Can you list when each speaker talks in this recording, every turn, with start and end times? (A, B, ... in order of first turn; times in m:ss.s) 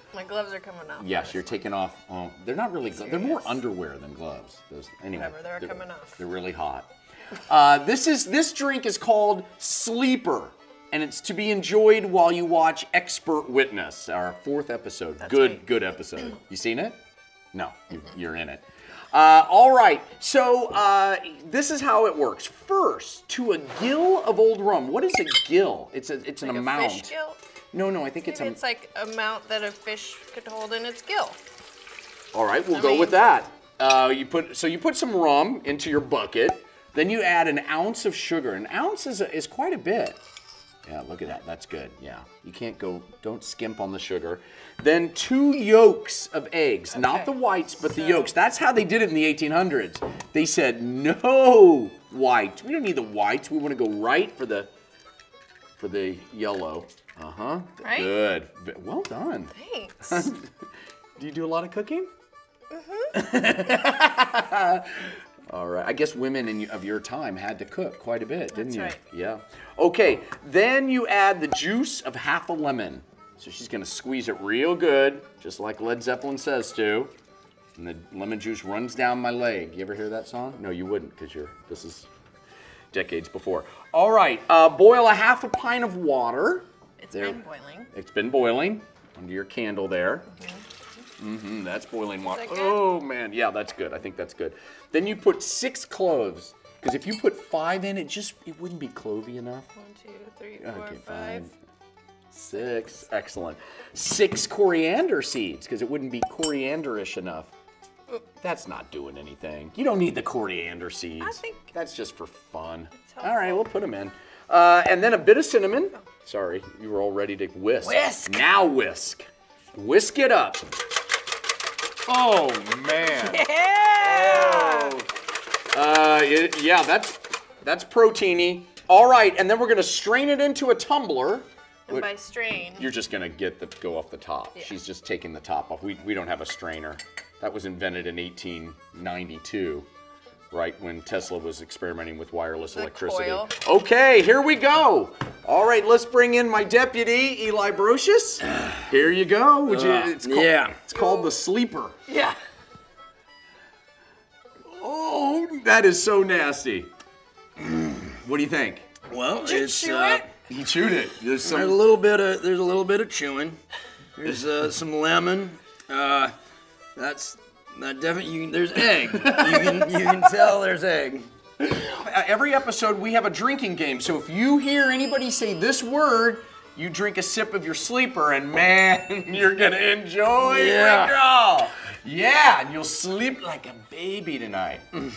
0:00.1-0:01.6 A
0:01.0-0:06.9 B
0:02.9-0:03.6 A
0:05.1-0:06.2 A
0:07.5-0:17.0 B
0:15.2-0:15.6 A
0:17.5-0:27.1 B
0:26.4-0:27.4 A
0:27.7-0:28.6 B
0:28.2-0:31.4 A
0:32.3-0:40.2 B
0:32.7-0:33.2 A
0:40.8-0:54.7 B
0:46.9-0:48.3 A
0:55.8-1:00.5 B
0:57.8-0:58.1 A
0:59.5-1:00.3 A
1:01.2-1:02.1 B
1:02.7-1:03.1 A
1:03.1-1:17.1 B
1:08.5-1:09.0 A
1:17.7-1:22.1 B
1:22.9-1:27.4 B
1:27.0-1:27.9 A
1:27.9-1:30.3 B
1:30.4-1:30.6 A
1:31.2-1:39.7 B
1:32.2-1:32.9 A
1:39.8-1:41.5 A
1:40.6-1:41.5 B
1:42.3-1:47.5 B
1:48.4-2:00.6 B
1:51.2-1:51.6 A
1:53.1-1:53.6 A
1:57.8-1:58.3 C
2:02.1-2:03.4 B
2:03.1-2:05.0 A
2:04.0-2:05.1 B
2:05.7-2:12.1 B
2:11.9-2:12.9 A
2:12.8-2:19.9 B
2:20.5-2:32.0 B
2:22.7-2:23.5 A
2:29.6-2:30.8 C
2:31.0-2:31.3 A
2:32.1-2:32.4 A
2:34.7-2:36.9 B
2:37.9-2:38.9 B
2:39.1-2:40.3 C
2:39.4-2:40.2 A
2:40.4-2:41.8 B
2:41.4-2:43.6 C
2:44.2-2:46.3 C
2:47.0-2:51.3 C
2:49.2-2:49.8 B
2:51.7-3:04.8 B
3:00.4-3:01.2 C